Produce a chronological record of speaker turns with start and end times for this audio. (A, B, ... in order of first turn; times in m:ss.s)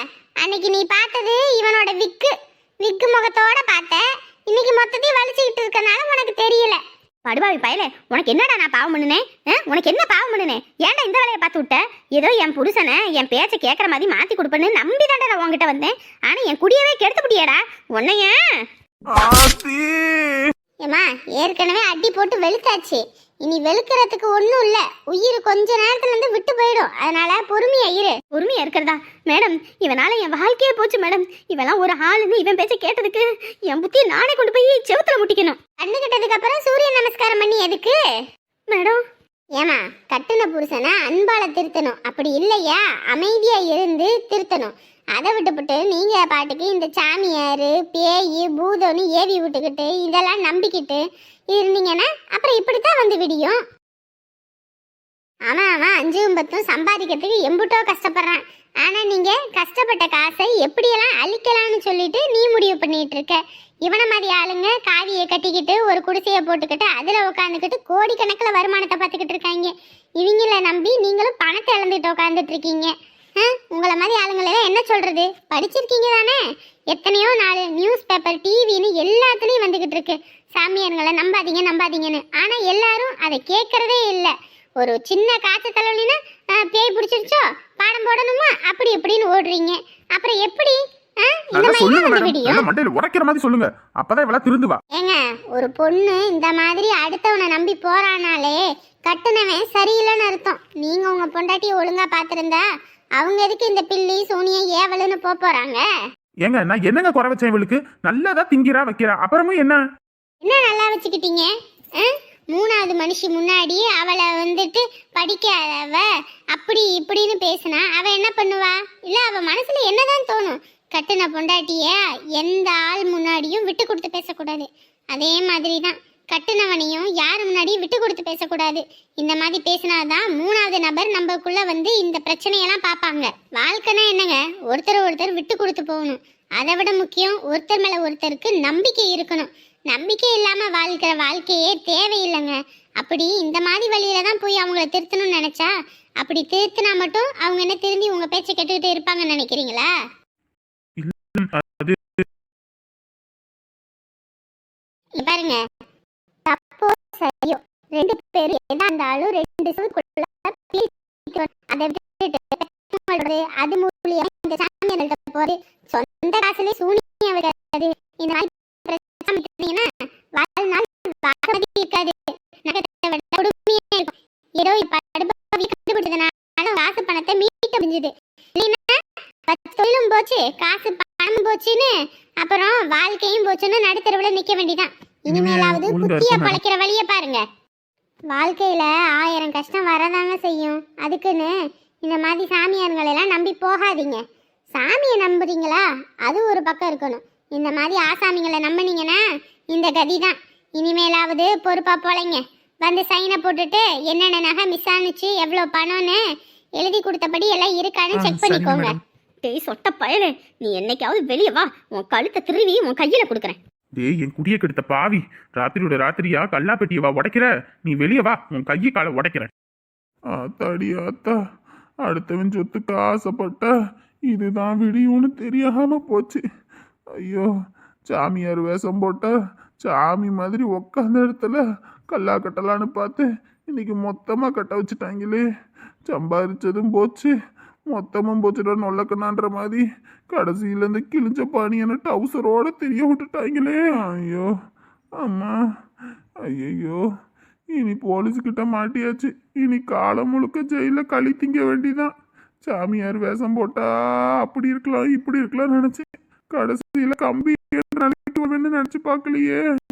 0:00.4-0:06.8 A
0:07.2-0:18.4 B
0:19.1-0:20.5 C
0:20.8-0:28.2 A
0:28.3-0:35.6 B
0:35.8-0:38.0 A
0:38.7-0:39.0 B
0:39.6-0:51.0 A
0:51.5-0:53.6 A
0:55.5-1:16.4 A
1:16.9-1:32.6 A
1:31.5-1:34.8 C
1:34.9-1:42.6 A
1:43.2-1:45.8 A
1:46.4-1:49.8 C
1:50.4-2:29.9 A
2:31.0-2:32.2 C
2:35.2-2:35.6 A
2:36.5-2:58.9 A
2:59.5-3:07.4 A
3:05.3-3:06.6 C
3:08.3-3:11.5 A
3:12.0-3:14.2 A
3:14.7-3:19.2 A
3:19.7-3:26.2 A
3:26.8-3:29.0 A
3:28.1-3:29.0 C
3:29.4-3:33.6 B
3:34.0-3:39.5 C
3:40.3-3:41.4 C
3:42.0-3:43.7 C
3:44.3-3:46.4 C
3:47.2-3:47.5 C
3:48.0-3:55.4 C
3:56.0-3:57.3 C
3:57.9-4:04.5 C
4:05.2-4:05.5 C
4:06.5-4:07.0 C
4:07.7-4:12.1 C
4:12.6-4:13.9 C
4:14.4-4:19.6 C